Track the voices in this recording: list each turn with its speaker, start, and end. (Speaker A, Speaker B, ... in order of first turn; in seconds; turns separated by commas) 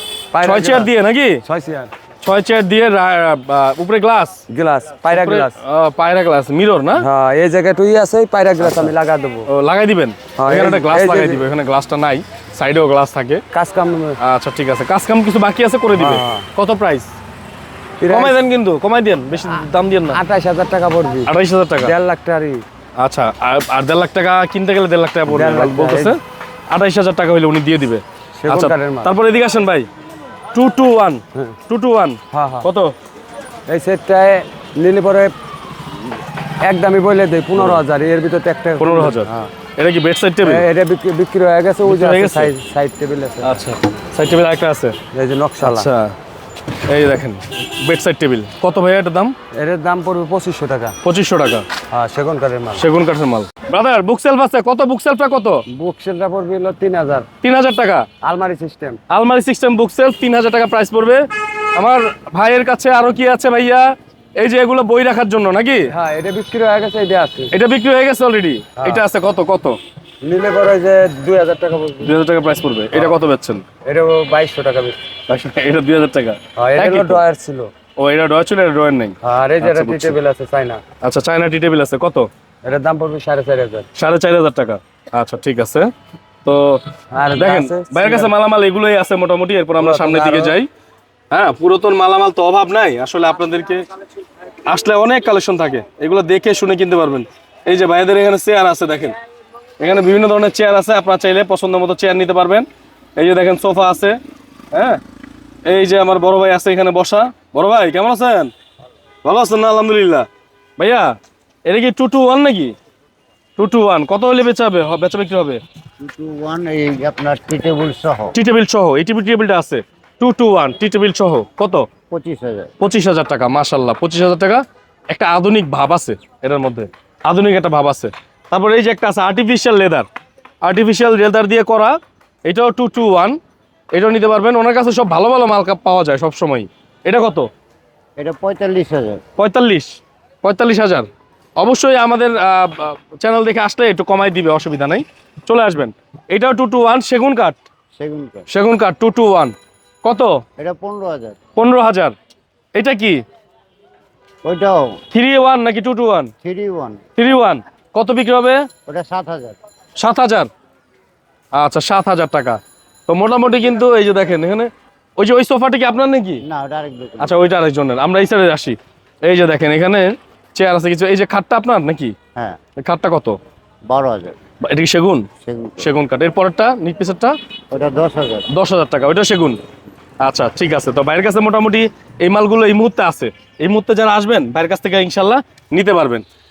Speaker A: 0.3-0.9, Speaker B: 0.4-1.4, Speaker A: 1.4-1.9, Speaker B: 2.2-4.4, Speaker A: 4.5-5.6, Speaker B: 5.1-7.0, Speaker A: 7.0-9.5, Speaker B: 8.6-8.9, Speaker B: 9.5-13.4, Speaker A: 10.4-11.5, Speaker A: 13.5-14.2, Speaker B: 14.2-17.1, Speaker A: 16.0-16.4, Speaker A: 18.0-18.4, Speaker B: 18.1-20.2, Speaker A: 20.1-22.6, Speaker B: 21.3-21.9, Speaker B: 23.0-26.2, Speaker A: 25.3-26.1, Speaker B: 26.7-29.9, Speaker A: 28.4-29.1, Speaker B: 30.5-32.9, Speaker A: 32.3-32.7, Speaker A: 33.7-35.3, Speaker A: 36.6-39.5, Speaker B: 37.6-37.8, Speaker B: 38.8-40.6, Speaker A: 40.4-43.6, Speaker B: 41.9-42.5, Speaker B: 43.4-45.0, Speaker A: 45.1-45.9, Speaker B: 45.6-46.1, Speaker B: 46.9-49.3, Speaker A: 49.5-51.0, Speaker B: 51.0-51.6, Speaker A: 51.9-52.9, Speaker B: 52.8-55.6, Speaker A: 55.7-57.3, Speaker B: 57.4-58.1, Speaker A: 58.2-59.0, Speaker B: 59.1-61.2, Speaker B: 61.8-63.9, Speaker B: 64.4-65.9, Speaker A: 65.9-67.5, Speaker B: 67.5-69.8, Speaker A: 68.8-69.0, Speaker A: 70.2-72.1, Speaker B: 72.0-73.6, Speaker A: 72.9-73.2, Speaker A: 73.9-75.0, Speaker B: 75.3-77.2, Speaker A: 76.6-77.7, Speaker B: 78.0-80.2, Speaker A: 79.2-80.8, Speaker B: 81.0-82.3, Speaker A: 82.7-83.9, Speaker B: 84.0-85.9, Speaker B: 86.5-86.8, Speaker A: 87.1-88.3, Speaker B: 87.4-90.7, Speaker A: 89.8-90.6, Speaker B: 91.3-93.8, Speaker B: 94.7-99.2, Speaker B: 99.8-104.2, Speaker B: 104.7-105.0, Speaker B: 105.7-108.5, Speaker B: 109.2-110.3, Speaker B: 110.8-111.1, Speaker B: 111.7-112.7, Speaker B: 113.6-115.6, Speaker C: 116.0-118.3, Speaker B: 118.3-121.9, Speaker C: 122.1-122.7, Speaker B: 122.8-130.1, Speaker B: 130.6-133.4, Speaker B: 133.9-137.5, Speaker C: 138.2-139.2, Speaker B: 139.4-141.1, Speaker B: 141.6-147.6, Speaker C: 148.0-148.5, Speaker B: 148.5-150.4, Speaker C: 150.6-151.4, Speaker B: 151.6-152.1, Speaker B: 152.8-153.2, Speaker C: 154.4-155.0, Speaker B: 155.1-156.3, Speaker C: 156.4-157.0, Speaker B: 157.2-158.7, Speaker C: 158.9-159.6, Speaker B: 160.0-160.5, Speaker B: 161.5-166.4, Speaker C: 166.4-167.3, Speaker B: 167.2-172.2, Speaker B: 172.8-173.4, Speaker C: 173.9-174.3, Speaker B: 174.7-175.3, Speaker C: 175.4-175.9, Speaker B: 175.8-177.4, Speaker C: 177.7-178.5, Speaker B: 178.5-179.6, Speaker B: 180.2-186.2